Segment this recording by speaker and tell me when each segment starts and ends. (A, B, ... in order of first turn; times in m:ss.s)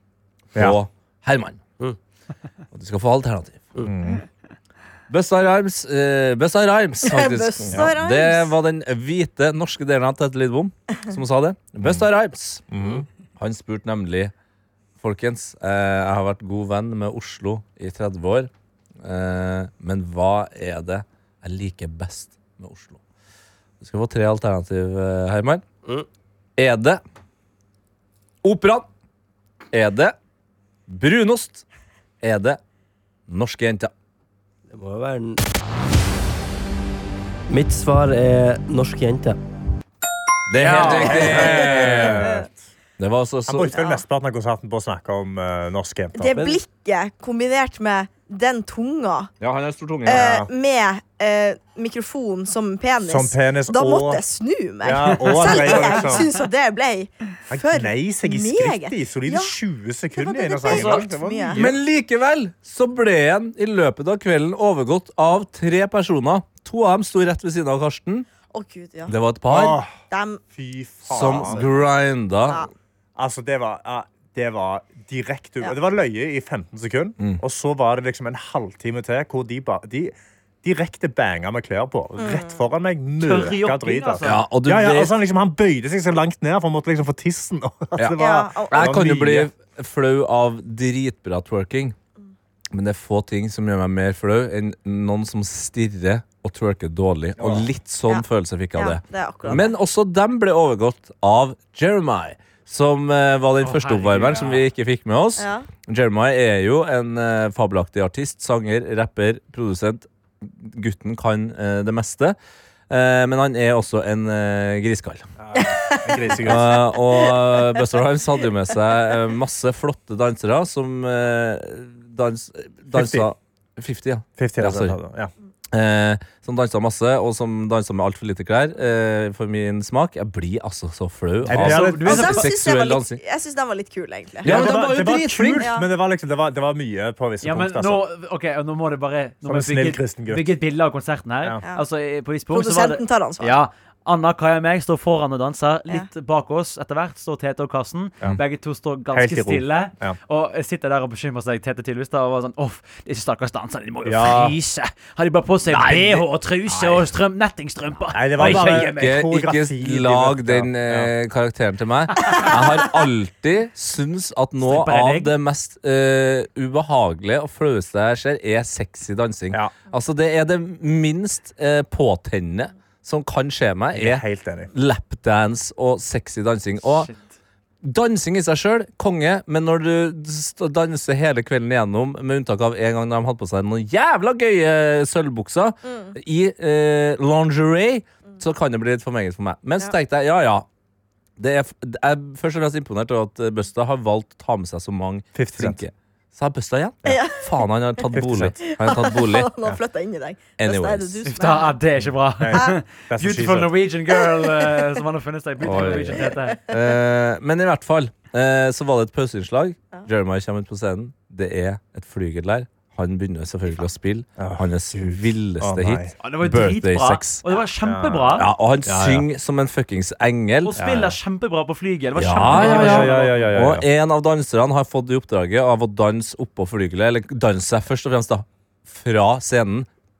0:00.5-0:01.6 A
0:02.7-0:03.7 A
0:03.8-0:04.2 B
0:05.1-0:14.3 A
0:07.0-0:08.5 C
0:11.8-0:12.0 B
0:12.7-0:13.0 B
0:15.0-0:18.5 A
0:19.0-0:23.0 A
0:23.8-0:25.6 A
0:26.6-0:27.0 A
0:28.4-0:28.9 A
0:29.7-0:30.1 A
0:30.9-0:31.6 A
0:32.2-0:32.6 A
0:33.3-0:33.9 A
0:34.7-0:35.4 D
0:37.5-0:39.4 D
0:40.5-0:42.2 A
0:40.6-0:41.3 E
0:40.8-0:42.6 B
0:41.1-0:42.4 C
0:43.0-0:43.7 A
0:43.5-0:46.4 B
0:43.7-0:44.0 C
0:46.2-0:49.3 C
0:46.3-0:46.6 D
0:49.4-0:50.3 A
0:50.0-0:59.5 C
0:50.1-0:50.5 B
0:53.0-0:54.2 B
0:54.8-0:56.3 B
0:57.5-1:01.8 B
1:00.2-1:01.7 C
1:00.7-1:01.0 E
1:01.5-1:08.3 A
1:08.5-1:09.1 C
1:09.1-1:09.8 A
1:09.5-1:10.0 B
1:10.1-1:10.4 C
1:10.5-1:11.7 B
1:11.1-1:12.6 A
1:11.3-1:11.7 C
1:13.2-1:29.5 B
1:22.2-1:22.6 C
1:23.2-1:24.4 E
1:24.2-1:25.1 A
1:28.2-1:29.0 C
1:28.7-1:32.0 A
1:32.7-1:52.4 A
1:37.4-1:37.7 B
1:38.1-1:39.7 C
1:43.6-1:44.6 E
1:45.4-1:45.7 C
1:52.9-1:55.2 A
1:55.4-1:56.8 B
1:55.5-1:57.8 C
1:56.4-2:05.0 A
2:02.9-2:03.3 B
2:04.4-2:05.3 B
2:05.7-2:13.2 A
2:11.5-2:12.4 B
2:11.6-2:12.4 E
2:12.0-2:14.7 C
2:14.4-2:18.0 B
2:14.4-2:15.7 A
2:15.6-2:15.9 C
2:17.4-2:39.2 E
2:19.4-2:20.5 B
2:22.5-2:23.6 C
2:29.1-2:30.2 B
2:34.0-2:34.6 B
2:35.7-2:37.1 A
2:38.1-2:41.1 B
2:38.4-2:54.2 A
2:44.6-2:45.3 E
2:53.9-2:54.7 B
2:54.7-2:57.1 A
2:56.8-2:57.4 E
2:57.8-3:10.6 A
3:05.8-3:06.1 C
3:11.4-3:19.5 A
3:15.3-3:15.8 B
3:17.0-3:18.1 C
3:18.1-3:18.6 B
3:18.6-3:21.8 C
3:20.6-3:21.2 A
3:21.3-3:26.6 E
3:22.4-3:23.7 B
3:24.4-3:24.7 C
3:25.6-3:37.4 A
3:34.4-3:36.1 B
3:36.2-3:38.5 E
3:37.8-3:39.2 B
3:38.4-3:40.7 A
3:40.6-3:43.4 E
3:40.8-3:41.2 B
3:42.2-3:49.9 A
3:42.4-3:43.8 B